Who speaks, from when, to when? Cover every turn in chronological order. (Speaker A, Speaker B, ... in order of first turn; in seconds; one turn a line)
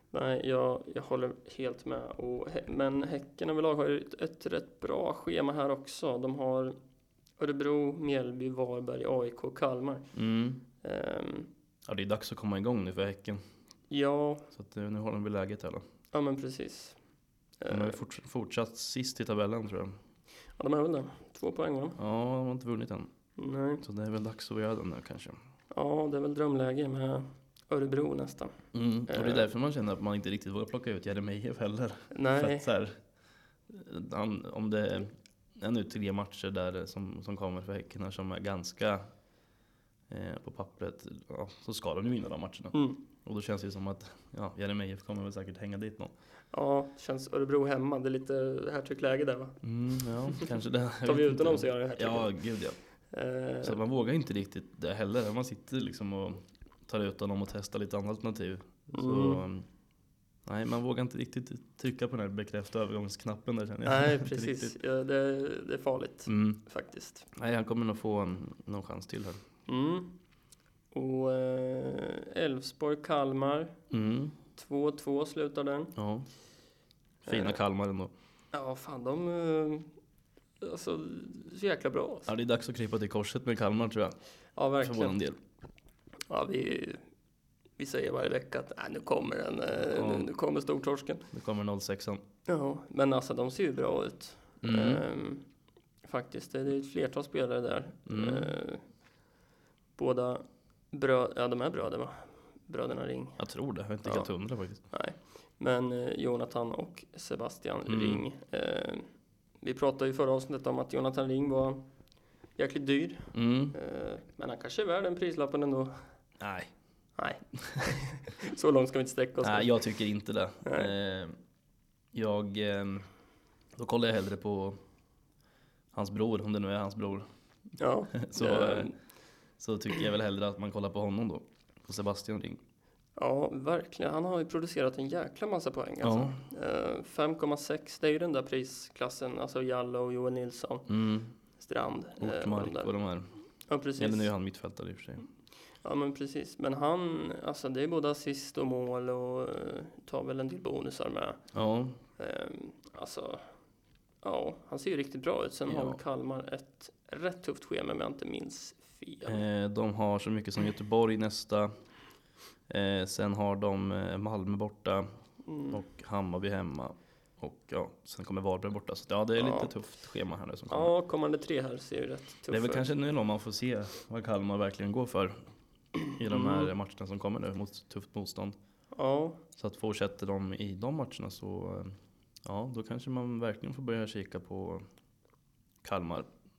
Speaker A: 0.1-6.8
Speaker A: 7.4-10.1
Speaker B: 10.1-10.6
Speaker A: 10.8-11.5
Speaker B: 11.8-13.4
Speaker A: 13.9-14.5
Speaker B: 14.5-15.8
Speaker A: 16.1-17.0
Speaker A: 17.6-18.0
Speaker B: 17.7-20.0
Speaker A: 20.6-22.0
Speaker B: 22.0-23.1
Speaker A: 23.4-23.8
Speaker B: 23.8-25.4
Speaker A: 25.7-29.5
Speaker B: 28.7-33.0
Speaker A: 32.1-32.7
Speaker B: 33.7-39.1
Speaker B: 40.1-46.1
Speaker A: 42.7-43.0
Speaker A: 46.5-49.6
Speaker B: 49.6-52.8
Speaker A: 51.0-52.4
Speaker A: 53.1-53.8
Speaker B: 53.6-59.6
Speaker A: 58.9-59.4
Speaker B: 60.5-64.8
Speaker A: 63.8-67.3
Speaker B: 66.2-66.6
Speaker B: 67.3-69.4
Speaker A: 69.7-70.1
Speaker A: 70.9-73.8
Speaker B: 73.9-74.3
Speaker A: 74.5-75.9
Speaker B: 76.0-76.3
Speaker B: 77.2-78.1
Speaker A: 77.3-77.6
Speaker A: 78.5-79.9
Speaker A: 80.6-82.3
Speaker B: 82.3-84.2
Speaker A: 84.5-85.2
Speaker B: 84.8-85.4
Speaker A: 86.3-87.0
Speaker A: 87.8-91.3
Speaker B: 89.8-90.3
Speaker B: 91.3-92.2
Speaker A: 92.5-95.5
Speaker B: 94.6-95.0
Speaker A: 96.0-98.9
Speaker B: 98.0-98.5
Speaker A: 100.0-103.4
Speaker B: 103.4-104.8
Speaker A: 104.0-109.1
Speaker B: 107.9-108.2
Speaker A: 109.6-111.8
Speaker A: 112.6-116.0
Speaker B: 113.3-113.7
Speaker B: 116.4-116.7
Speaker A: 117.2-119.8
Speaker B: 119.4-121.3
Speaker A: 120.6-120.9
Speaker B: 122.1-123.1
Speaker B: 123.8-124.8
Speaker B: 125.9-127.3
Speaker A: 127.8-128.9
Speaker B: 128.1-128.9
Speaker B: 129.6-132.6
Speaker A: 133.2-140.9
Speaker B: 136.0-136.4
Speaker B: 140.9-141.3
Speaker A: 141.6-142.9
Speaker B: 142.2-143.3
Speaker A: 143.7-144.3
Speaker B: 144.0-145.2
Speaker A: 145.8-151.4
Speaker B: 151.5-152.0
Speaker A: 152.2-153.5
Speaker A: 154.2-159.4
Speaker B: 155.7-156.0
Speaker B: 159.2-161.7
Speaker B: 162.7-165.1
Speaker A: 165.4-165.8
Speaker B: 165.7-170.9
Speaker A: 169.4-169.7
Speaker A: 170.7-172.9
Speaker B: 172.5-175.4
Speaker A: 176.1-176.7
Speaker B: 176.2-178.6
Speaker A: 178.9-179.4
Speaker B: 179.6-184.8
Speaker B: 185.8-186.3